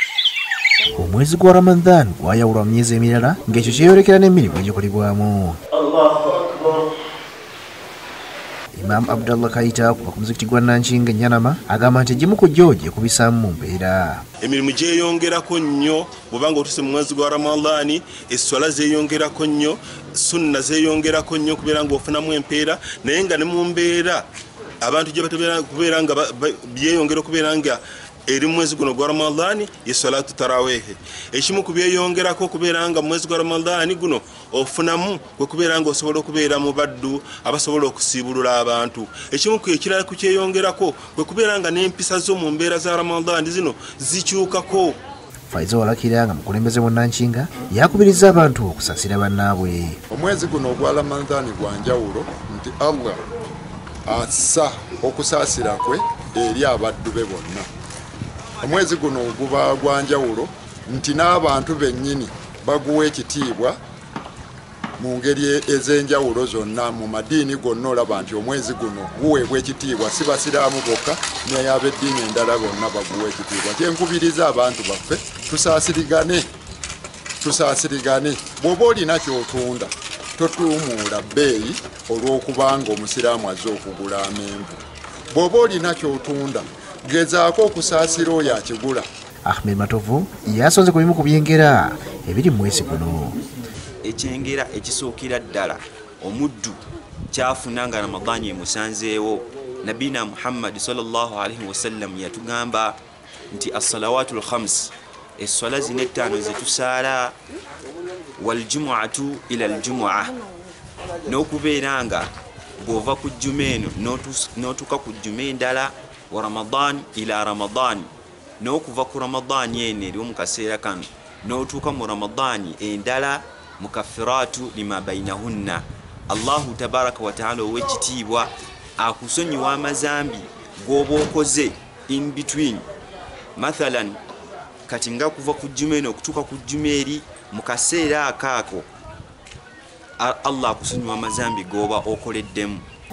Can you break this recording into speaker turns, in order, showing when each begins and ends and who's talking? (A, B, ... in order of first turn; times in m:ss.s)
0:00.9-0:05.6 A
0:05.7-0:06.8 B
0:08.7-0:14.2 A
0:14.4-0:24.2 B
0:24.8-0:45.0 B
0:45.5-0:50.0 A
0:50.1-0:53.2 C
0:54.0-0:57.7 C
0:58.6-1:03.8 C
1:05.0-1:16.4 C
1:17.4-1:24.8 C
1:25.3-1:29.1 C
1:29.4-1:33.4 A
1:34.0-1:36.8 D
1:37.3-1:43.0 D
1:43.5-1:47.3 D
1:48.4-1:50.4 D
1:51.2-2:12.8 D
2:13.6-2:14.2 D
2:14.8-2:18.9 D
2:20.2-2:22.8 D